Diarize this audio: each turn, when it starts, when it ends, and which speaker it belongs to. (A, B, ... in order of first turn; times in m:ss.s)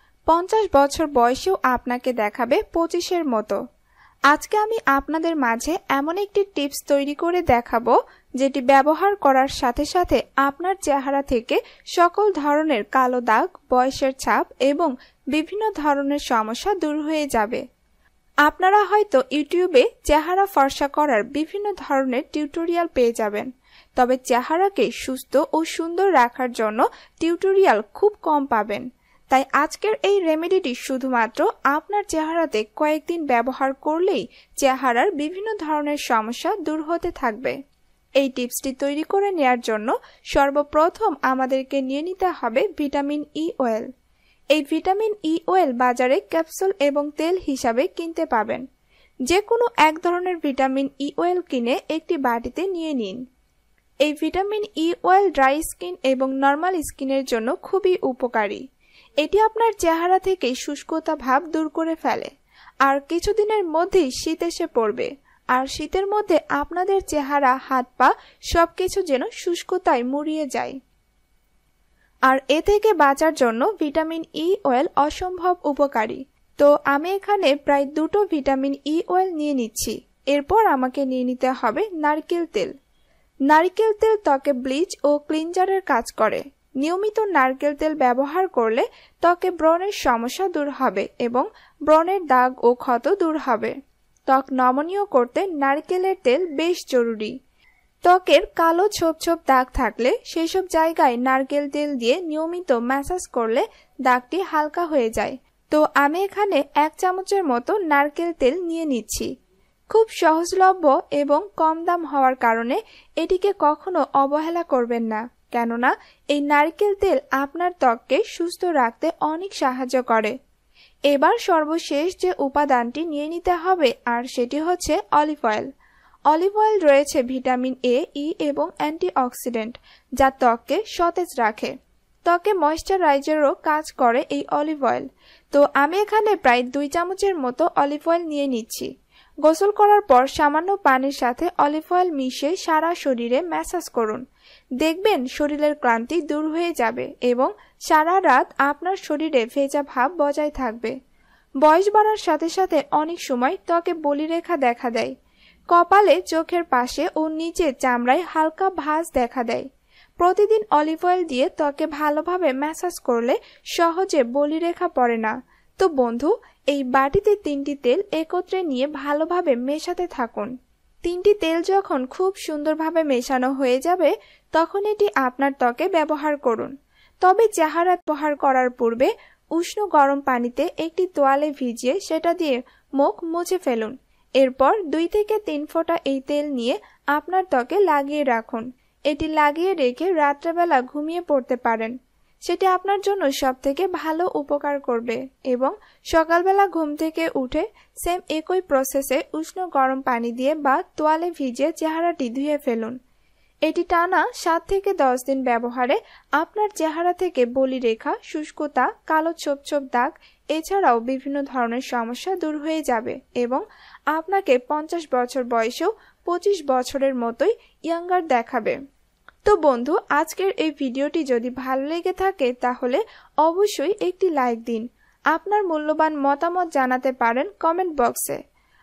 0:00.3-0:03.6 A
0:04.3-0:17.6 A
0:18.5-0:37.6 A
0:38.2-0:43.9 A
0:44.5-0:48.6 A
0:49.3-0:53.2 A
0:54.0-0:58.6 A
0:59.2-1:02.3 A
1:02.8-1:10.8 A
1:12.3-1:22.7 A
1:23.5-1:33.8 A
1:34.3-1:37.3 A
1:38.0-1:49.3 A
1:49.9-2:00.3 A
2:01.1-2:05.7 A
2:06.3-2:11.7 A
2:12.2-2:18.9 A
2:19.4-2:24.2 A
2:24.8-2:30.9 A
2:31.6-2:35.1 A
2:35.7-2:39.7 A
2:40.2-2:50.5 A
2:51.0-3:11.9 A
3:12.4-3:23.0 A
3:23.7-3:33.6 A
3:34.1-3:38.8 A
3:39.4-3:48.4 A